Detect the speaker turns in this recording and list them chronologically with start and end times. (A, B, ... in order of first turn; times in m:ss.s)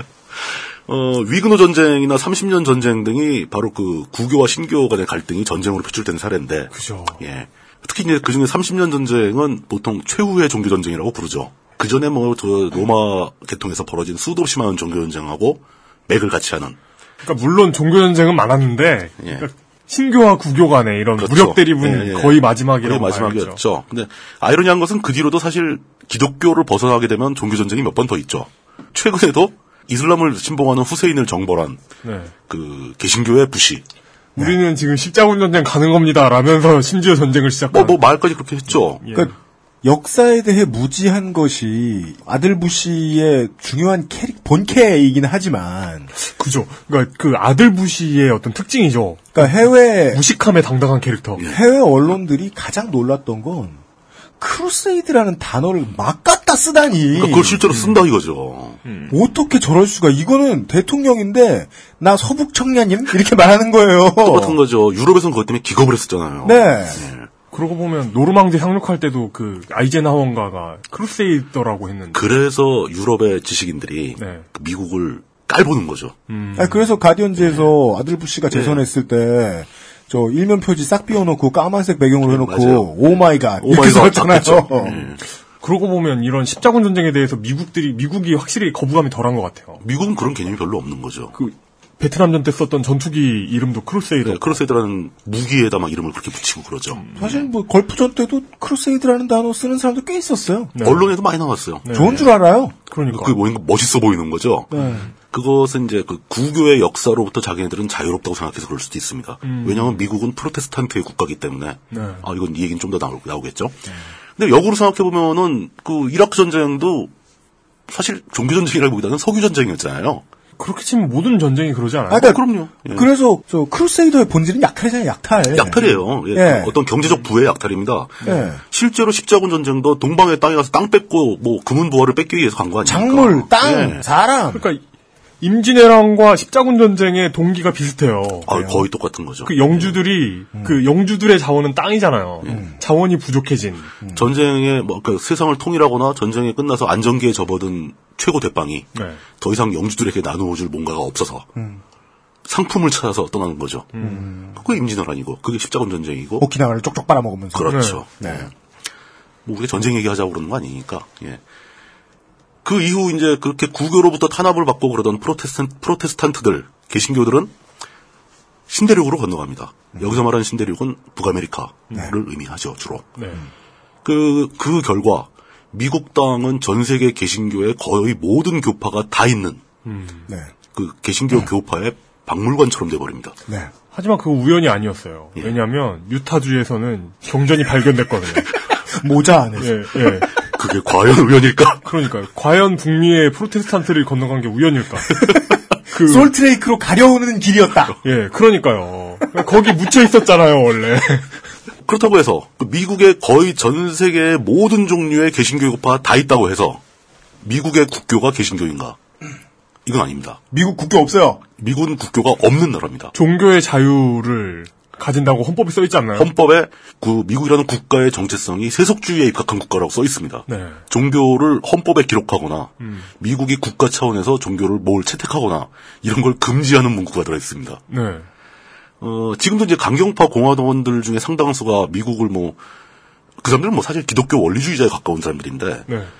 0:00.4-0:16.8 A
0:06.7-0:07.2 B
0:17.2-0:23.6 B
0:19.2-0:19.4 A
0:21.2-0:31.8 A
0:32.0-0:32.3 B
0:32.5-0:33.8 A
0:34.4-0:38.0 B
0:37.7-0:39.0 A
0:39.0-0:39.3 B
0:39.1-0:46.1 C
0:46.2-0:51.4 B
0:49.4-0:50.2 C
0:51.4-0:53.8 C
0:54.4-0:57.6 C
0:57.1-0:58.8 A
0:57.7-0:58.0 B
0:58.8-0:59.1 B
0:59.1-1:04.6 C
1:04.2-1:07.3 A
1:06.4-1:07.1 C
1:07.5-1:12.3 B
1:12.1-1:16.2 A
1:14.2-1:14.4 B
1:16.3-1:16.9 B
1:16.6-1:25.0 C
1:18.5-1:18.8 A
1:22.2-1:25.2 A
1:25.6-1:29.8 B
1:29.8-1:31.4 A
1:31.4-1:34.6 B
1:34.2-1:37.4 A
1:37.0-1:37.4 B
1:37.2-1:40.7 C
1:40.7-1:41.1 B
1:40.8-1:42.2 A
1:41.8-1:43.4 B
1:41.9-1:42.7 C
1:43.1-1:53.9 A
1:44.7-1:45.1 C
1:44.7-1:45.1 B
1:49.4-1:50.0 B
1:51.9-1:52.3 B
1:54.4-1:57.1 A
1:57.9-2:00.2 A
2:00.6-2:02.4 B
2:02.1-2:06.8 C
2:02.2-2:03.1 A
2:05.5-2:14.0 A
2:08.2-2:08.5 B
2:08.2-2:08.6 C
2:12.8-2:14.7 C
2:14.5-2:14.8 B
2:15.4-2:18.5 B
2:18.4-2:20.0 A
2:18.5-2:18.9 C
2:19.4-2:23.9 B
2:20.5-2:20.8 C
2:22.4-2:22.8 C
2:24.0-2:24.3 C
2:24.1-2:31.5 A
2:28.9-2:29.2 B
2:31.6-2:31.8 C
2:32.4-2:33.9 A
2:33.9-2:34.3 B
2:34.0-2:34.6 C
2:34.5-2:36.5 A
2:36.4-2:38.5 C
2:37.5-2:38.5 A
2:37.7-2:38.0 B
2:39.4-2:41.4 A
2:42.6-2:47.5 A
2:48.7-2:53.1 A
2:53.2-2:53.4 B
2:54.0-2:59.6 A
2:59.8-3:00.3 B
3:00.3-3:00.5 C
3:00.7-3:03.4 A
3:03.9-3:08.5 B
3:08.9-3:10.2 C
3:09.6-3:10.3 B
3:10.4-3:11.8 A
3:11.8-3:15.3 B
3:15.9-3:16.3 B
3:15.9-3:18.0 C
3:18.0-3:21.4 B
3:21.8-3:26.8 A
3:27.4-3:29.0 A
3:29.9-3:30.4 A
3:30.5-3:31.4 C
3:31.6-3:33.1 A
3:33.1-3:36.3 B
3:36.1-3:47.8 A
3:40.5-3:40.8 B
3:42.8-3:43.1 B
3:47.9-3:48.3 B
3:49.0-3:52.6 A
3:53.4-3:55.9 A